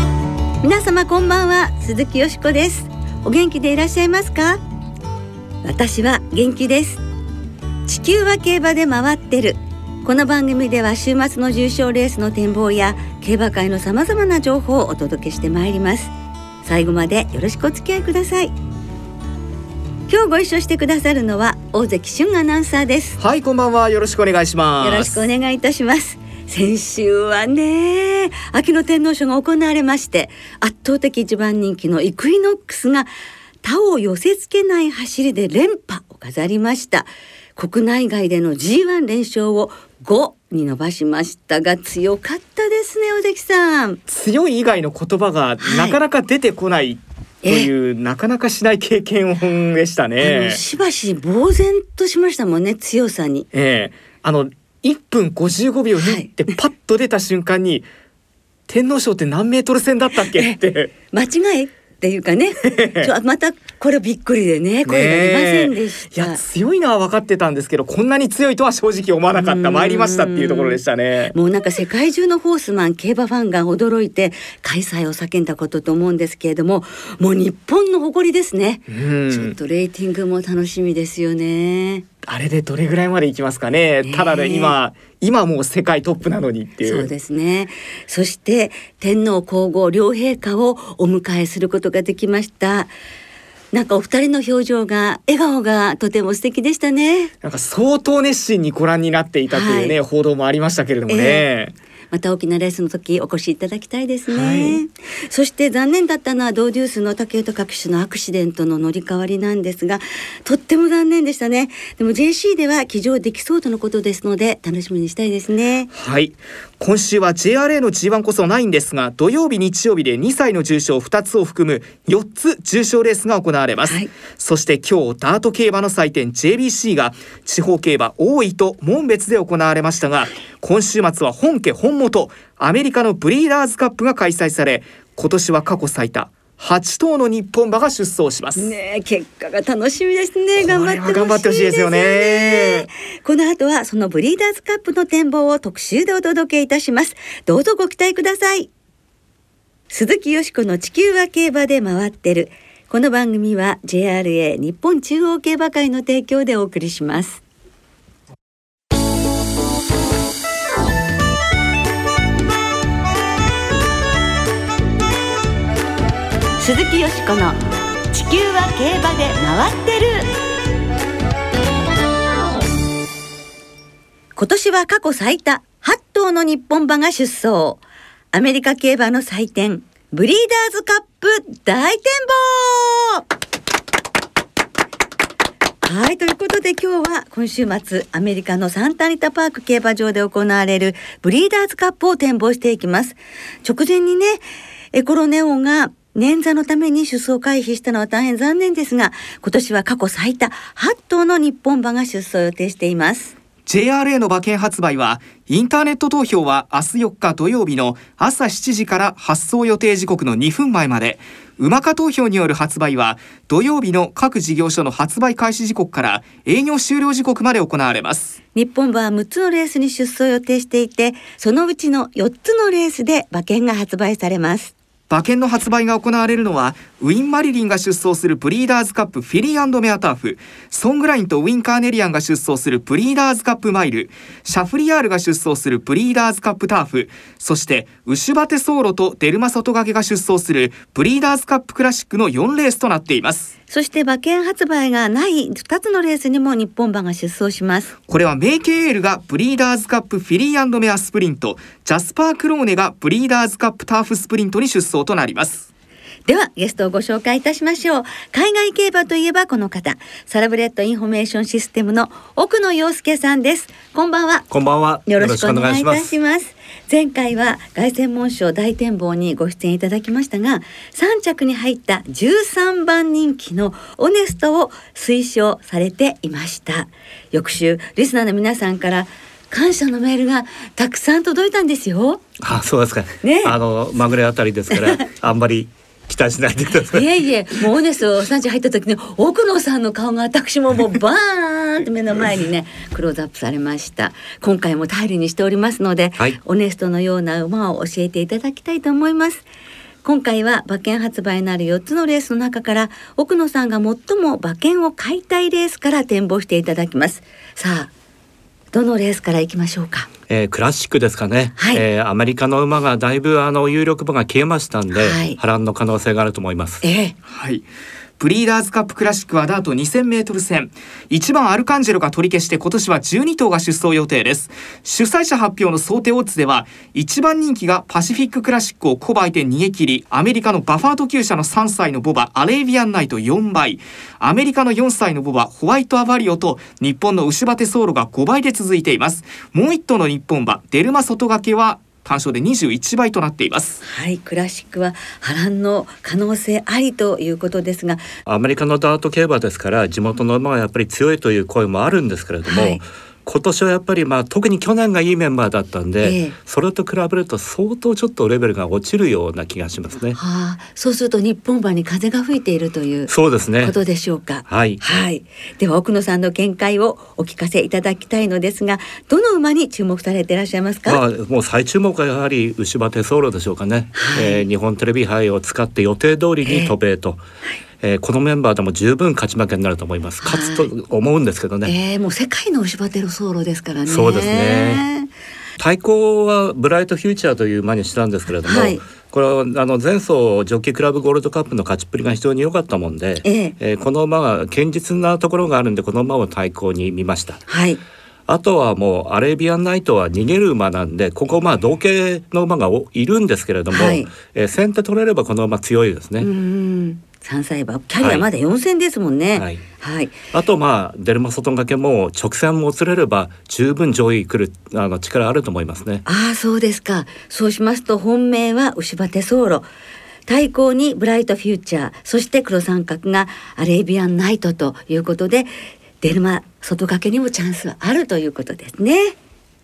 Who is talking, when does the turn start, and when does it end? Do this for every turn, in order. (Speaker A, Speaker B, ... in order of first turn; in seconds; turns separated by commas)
Speaker A: 0.6-4.6, Speaker A: 5.6-7.0, Speaker A: 7.8-16.1, Speaker A: 16.6-18.5, Speaker A: 20.1-23.2, Speaker B: 23.2-25.2, Speaker A: 24.8-33.1, Speaker A: 33.6-44.0, Speaker B: 44.1-50.6, Speaker A: 45.6-46.0, Speaker A: 47.4-47.7, Speaker A: 50.2-53.5, Speaker B: 53.5-57.9, Speaker A: 56.0-56.3, Speaker B: 58.7-60.9, Speaker A: 61.1-66.4, Speaker B: 62.6-63.1, Speaker B: 64.8-71.3, Speaker A: 69.3-70.8, Speaker A: 71.3-82.0, Speaker B: 78.9-79.5, Speaker B: 82.2-87.1, Speaker A: 84.0-84.7, Speaker A: 86.8-92.9, Speaker A: 93.7-97.3, Speaker B: 97.4-101.7, Speaker A: 99.5-100.0, Speaker A: 101.1-101.4, Speaker A: 102.1-115.9, Speaker B: 104.3-104.8, Speaker B: 115.9-138.7, Speaker A: 138.6-148.7, Speaker B: 140.6-142.9, Speaker A: 149.9-157.4, Speaker A: 166.6-167.6, Speaker A: 168.1-170.3, Speaker A: 174.3-177.8, Speaker A: 178.3-183.2, Speaker A: 185.8-203.3, Speaker B: 203.7-218.4, Speaker A: 218.5-224.7, Speaker B: 225.1-243.5, Speaker A: 243.7-247.9, Speaker B: 248.1-255.7, Speaker A: 256.3-264.5, Speaker C: 264.5-266.1, Speaker A: 265.1-282.2, Speaker C: 282.4-287.1, Speaker A: 283.2-283.6, Speaker A: 284.7-285.0, Speaker A: 286.9-299.4, Speaker A: 300.0-307.9, Speaker A: 308.7-310.1, Speaker C: 310.3-316.8, Speaker A: 311.6-311.8, Speaker A: 314.9-315.4, Speaker A: 316.8-317.1, Speaker B: 317.3-317.6, Speaker B: 318.2-343.8, Speaker A: 343.8-348.0, Speaker C: 348.2-360.2, Speaker A: 352.4-352.8, Speaker A: 356.0-356.3, Speaker A: 360.1-371.0, Speaker C: 363.1-363.7, Speaker C: 364.5-364.8, Speaker C: 370.9-377.2, Speaker A: 373.9-374.4, Speaker A: 376.4-376.7, Speaker C: 377.8-381.7, Speaker A: 380.2-380.7, Speaker A: 381.6-385.1, Speaker C: 383.9-384.8, Speaker C: 385.6-397.4, Speaker A: 388.4-388.8, Speaker A: 393.2-393.5, Speaker A: 397.5-397.8, Speaker C: 398.3-406.3, Speaker A: 403.7-404.1, Speaker A: 406.2-410.2, Speaker C: 408.0-408.3, Speaker C: 409.3-409.6, Speaker C: 410.3-416.0, Speaker A: 416.0-419.7, Speaker A: 420.3-429.1